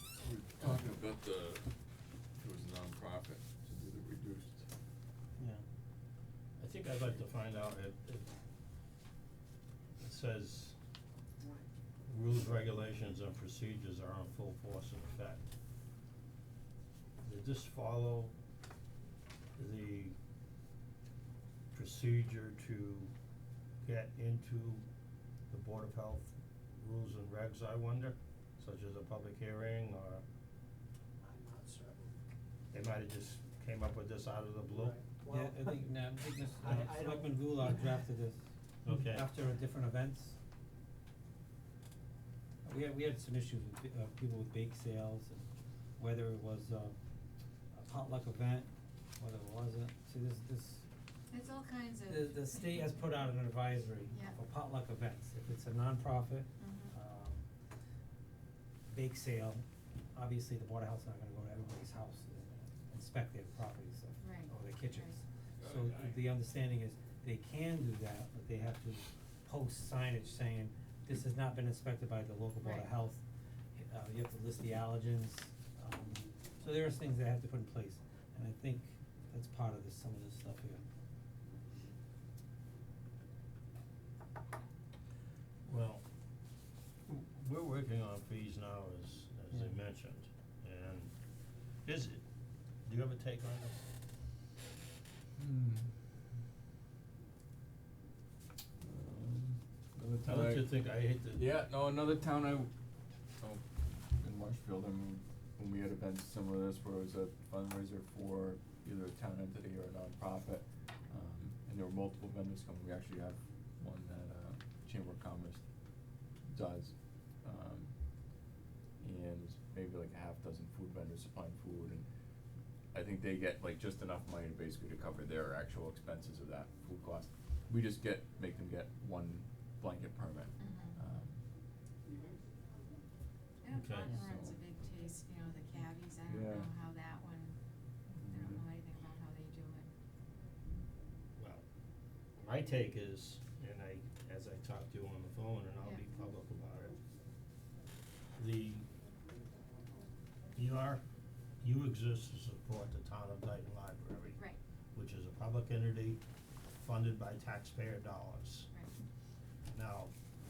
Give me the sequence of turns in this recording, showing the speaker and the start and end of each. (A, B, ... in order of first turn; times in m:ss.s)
0:00.2-0:01.6 A
0:02.4-0:04.6 A
0:05.4-0:05.6 B
0:06.6-0:08.3 C
0:10.0-0:10.8 C
0:12.0-0:15.4 C
0:17.2-0:18.3 C
0:19.6-0:20.2 C
0:21.7-0:23.1 C
0:23.8-0:24.8 C
0:25.5-0:30.2 C
0:31.2-0:32.2 D
0:32.7-0:35.0 C
0:34.7-0:35.8 D
0:35.3-0:40.4 B
0:36.6-0:37.8 D
0:38.8-0:39.3 C
0:42.6-0:45.5 B
0:46.0-0:47.0 B
0:47.7-0:50.8 B
0:51.3-0:53.1 E
0:52.1-0:57.4 B
0:56.6-0:56.9 E
0:58.9-0:59.6 B
1:00.2-1:13.2 B
1:04.2-1:05.2 E
1:12.6-1:12.9 E
1:13.8-1:20.9 B
1:25.6-1:26.0 C
1:27.1-1:31.1 C
1:31.8-1:32.2 C
1:32.9-1:33.9 C
1:35.4-1:35.9 A
1:38.8-1:40.7 A
1:40.2-1:41.5 C
1:41.3-1:42.7 A
1:43.4-1:55.6 A
1:56.5-1:58.4 A
1:59.0-2:02.0 A
2:02.9-2:11.4 A
2:10.6-2:11.0 E
2:13.6-2:17.6 E
2:13.7-2:14.1 C
2:14.0-2:14.6 A
2:16.2-2:16.7 A
2:18.1-2:18.6 A
2:18.3-2:19.9 E
2:21.4-2:21.6 C
2:22.4-2:27.0 C
2:28.4-2:28.8 C
2:30.5-2:31.0 C
2:31.6-2:34.4 C
2:34.9-2:36.2 C
2:36.8-2:38.7 C
2:39.7-2:40.1 C